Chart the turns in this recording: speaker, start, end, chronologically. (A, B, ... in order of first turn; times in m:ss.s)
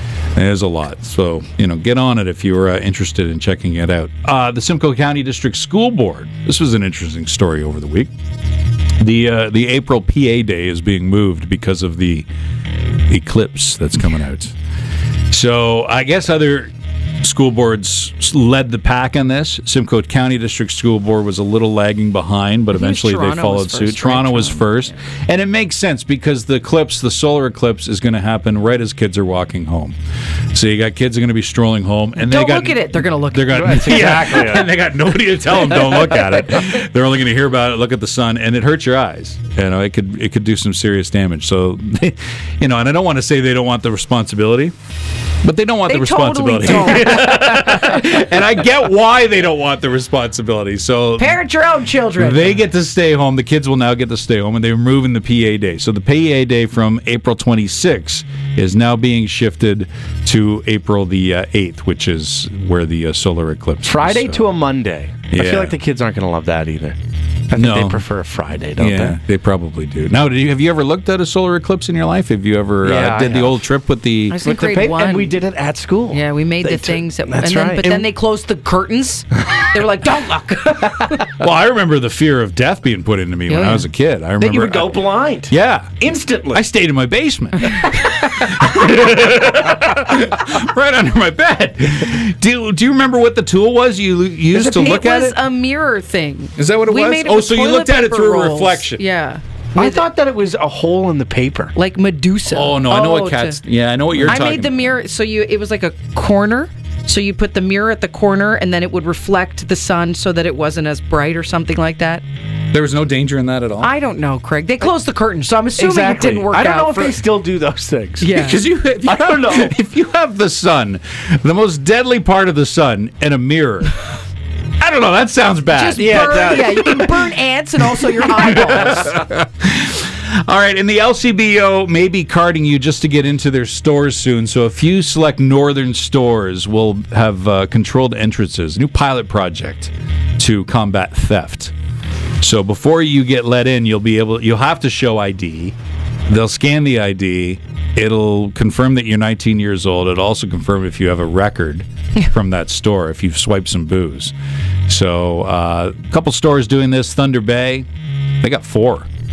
0:00.4-0:08.1 A
0:09.0-0:12.3 A
0:13.1-0:14.5 A
0:15.3-0:30.0 A
0:22.7-0:24.9 B
0:30.5-0:44.7 A
0:32.2-0:34.1 B
0:33.5-0:34.7 C
0:45.4-0:51.4 A
0:45.9-0:47.7 B
0:51.2-0:52.6 B
0:52.2-1:04.5 A
1:03.8-1:07.0 C
1:05.3-1:05.8 A
1:07.5-1:09.2 C
1:07.5-1:08.0 A
1:08.8-1:14.4 A
1:12.8-1:13.6 C
1:14.3-1:15.4 B
1:14.4-1:18.0 C
1:16.1-1:21.3 B
1:21.4-1:35.4 A
1:23.5-1:23.9 B
1:24.4-1:26.6 C
1:34.5-1:40.0 B
1:36.6-1:39.0 A
1:39.8-1:41.7 C
1:41.8-1:43.6 B
1:42.5-1:44.9 A
1:44.1-1:44.4 C
1:44.3-1:52.2 B
1:52.7-1:53.9 A
1:53.8-1:57.2 B
1:55.8-1:59.8 C
1:58.2-1:58.6 B
1:58.3-2:04.0 A
2:04.8-2:07.3 A
2:05.7-2:09.2 B
2:06.0-2:06.8 C
2:08.0-2:21.7 A
2:22.4-2:25.8 A
2:26.3-2:34.3 A
2:34.9-2:37.9 A
2:38.4-2:39.1 A